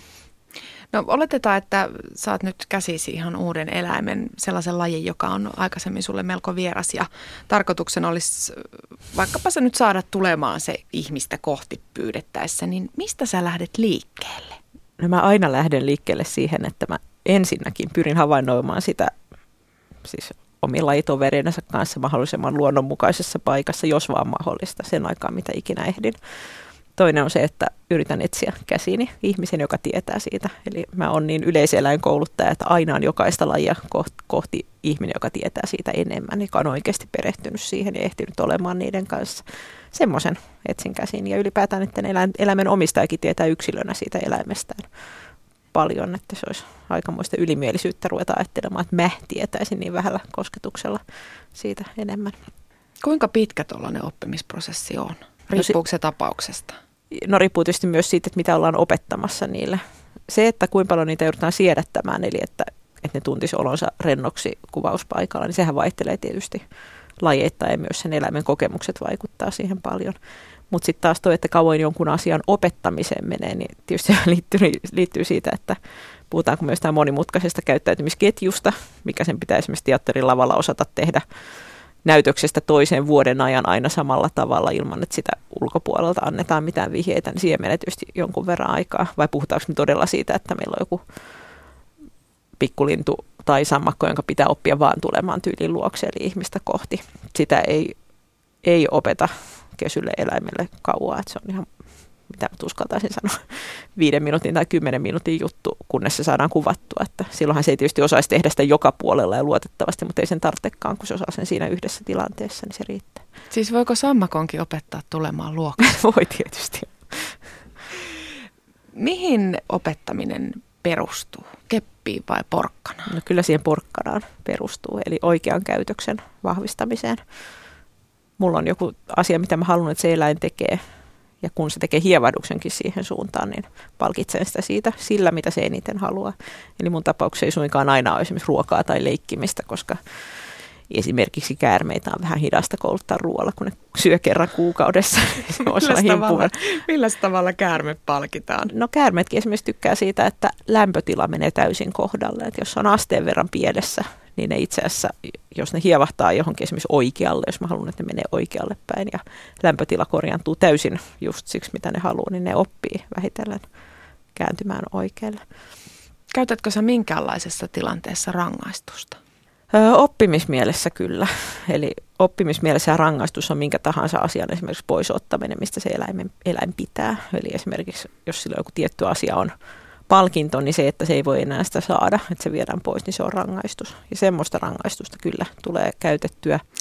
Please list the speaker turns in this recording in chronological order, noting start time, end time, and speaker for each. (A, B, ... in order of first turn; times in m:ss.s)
0:00.9-0:14.6 A
0:15.0-0:19.1 B
0:20.0-0:26.2 B
0:26.9-0:44.9 B
0:45.7-0:51.0 B
0:51.6-0:52.4 B
0:53.0-0:56.8 A
0:57.1-1:06.6 B
1:07.2-1:10.2 B
1:10.7-1:15.8 B
1:16.3-1:21.2 B
1:22.0-1:31.0 B
1:32.6-1:38.0 B
1:38.6-1:41.7 B
1:42.3-1:53.2 B
1:53.5-1:56.0 A
1:55.8-1:57.4 B
1:58.9-2:03.1 A
2:03.1-2:07.2 B
2:08.4-2:10.8 B
2:11.4-2:20.0 B
2:20.9-2:26.6 B
2:25.6-2:28.7 A
2:28.7-2:43.6 B
2:44.4-2:45.4 B
2:46.3-2:49.2 A
2:49.7-2:59.5 B
3:00.1-3:06.6 B